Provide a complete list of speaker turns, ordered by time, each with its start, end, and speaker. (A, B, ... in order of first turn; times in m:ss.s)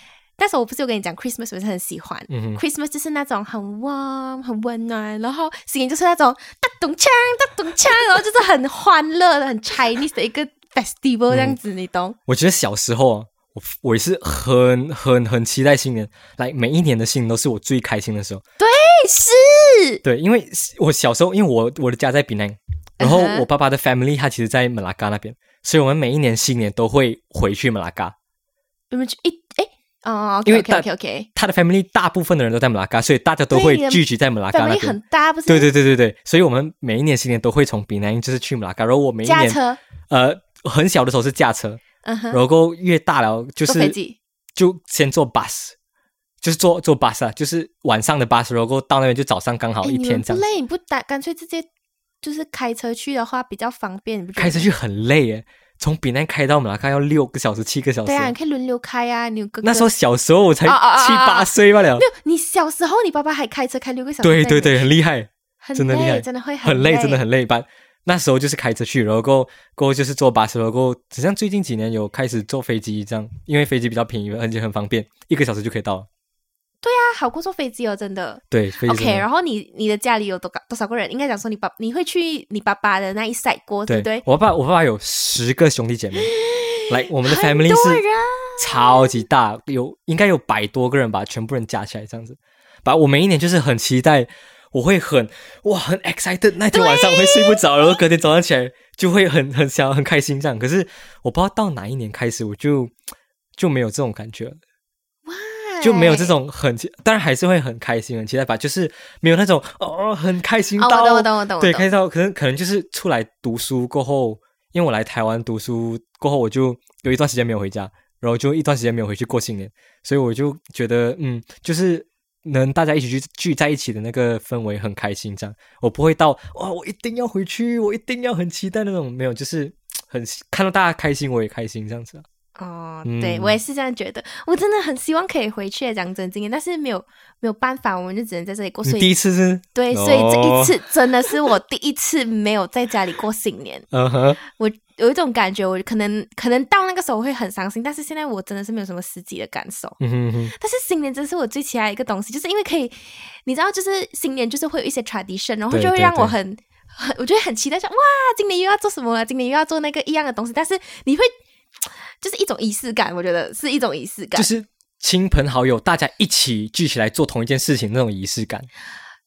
0:00.4-0:12.2 A
0:02.3-0:02.6 B
0:11.3-0:11.6 B
0:12.3-0:18.4 B
0:18.6-0:20.0 A
0:20.0-0:28.1 B
0:23.0-0:23.4 A
0:28.9-0:31.3 A
0:30.4-0:41.8 B
0:33.5-0:35.7 A
0:39.2-0:39.8 A
0:42.0-0:42.4 A
0:42.3-0:44.0 B
0:43.6-0:44.2 A
0:44.6-0:45.7 B
0:46.4-0:50.4 B
0:49.8-0:51.6 A
0:52.2-0:54.7 A
0:54.4-0:58.3 B
0:58.0-0:59.9 A
0:59.6-1:02.0 B
1:00.6-1:04.8 A
1:04.2-1:16.1 B
1:05.6-1:07.2 A
1:16.8-1:24.2 A
1:18.5-1:19.2 B
1:23.9-1:26.3 B
1:26.2-1:29.2 A
1:26.9-1:28.0 B
1:28.6-1:42.9 B
1:36.7-1:38.0 A
1:43.6-1:44.6 B
1:45.3-1:46.3 A
1:45.8-2:12.2 B
1:50.8-1:51.9 A
2:12.6-2:19.1 A
2:13.0-2:13.6 B
2:18.8-2:20.8 B
2:19.7-2:23.9 A
2:23.9-2:24.4 B
2:24.4-2:30.0 A
2:30.0-2:30.5 B
2:30.5-2:41.3 A
2:35.7-2:36.3 B
2:42.2-2:44.5 A
2:44.4-2:48.7 B